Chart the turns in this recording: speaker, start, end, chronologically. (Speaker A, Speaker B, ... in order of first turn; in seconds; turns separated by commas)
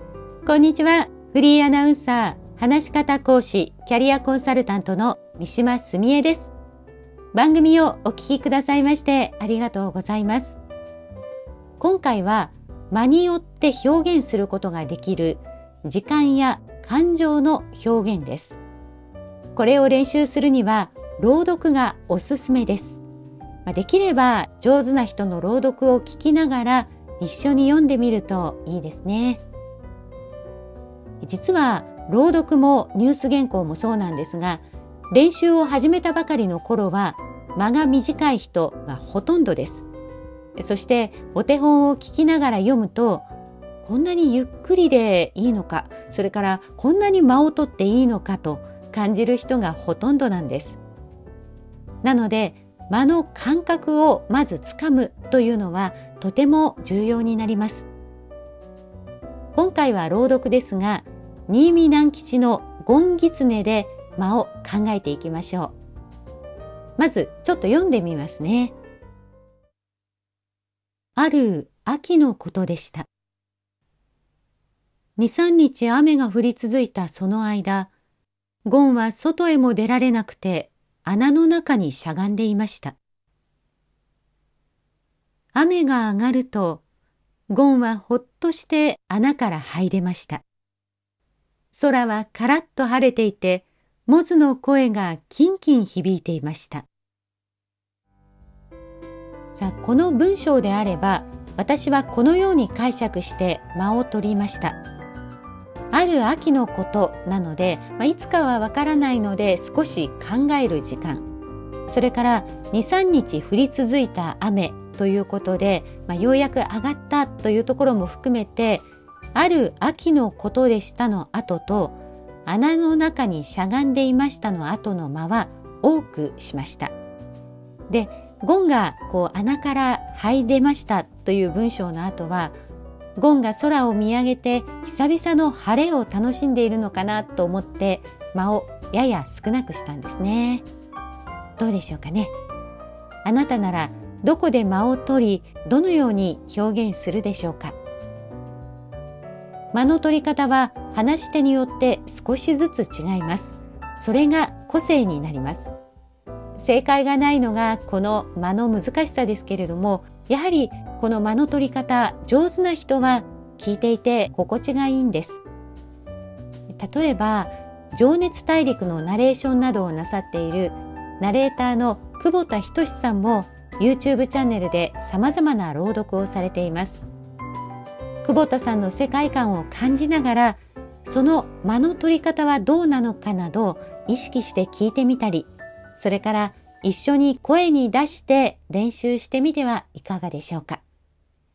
Speaker A: 0.5-6.5, Speaker A: 7.3-10.6, Speaker A: 11.8-18.6, Speaker A: 19.6-23.0, Speaker A: 23.6-29.4, Speaker A: 31.2-39.8, Speaker A: 40.6-43.3, Speaker A: 43.8-50.8, Speaker A: 52.0-57.9, Speaker A: 59.5-65.7, Speaker A: 67.0-68.7, Speaker A: 71.2-73.1, Speaker A: 75.2-77.9, Speaker A: 78.7-83.0, Speaker A: 85.5-86.8, Speaker A: 87.5-90.4, Speaker A: 91.7-96.9, Speaker A: 99.5-104.8, Speaker A: 105.9-111.2, Speaker A: 111.9-126.9, Speaker A: 127.9-132.5, Speaker A: 133.2-140.6, Speaker A: 141.6-142.3, Speaker A: 143.2-147.8, Speaker A: 149.7-155.7, Speaker A: 156.6-165.4, Speaker A: 166.7-177.0, Speaker A: 178.2-190.8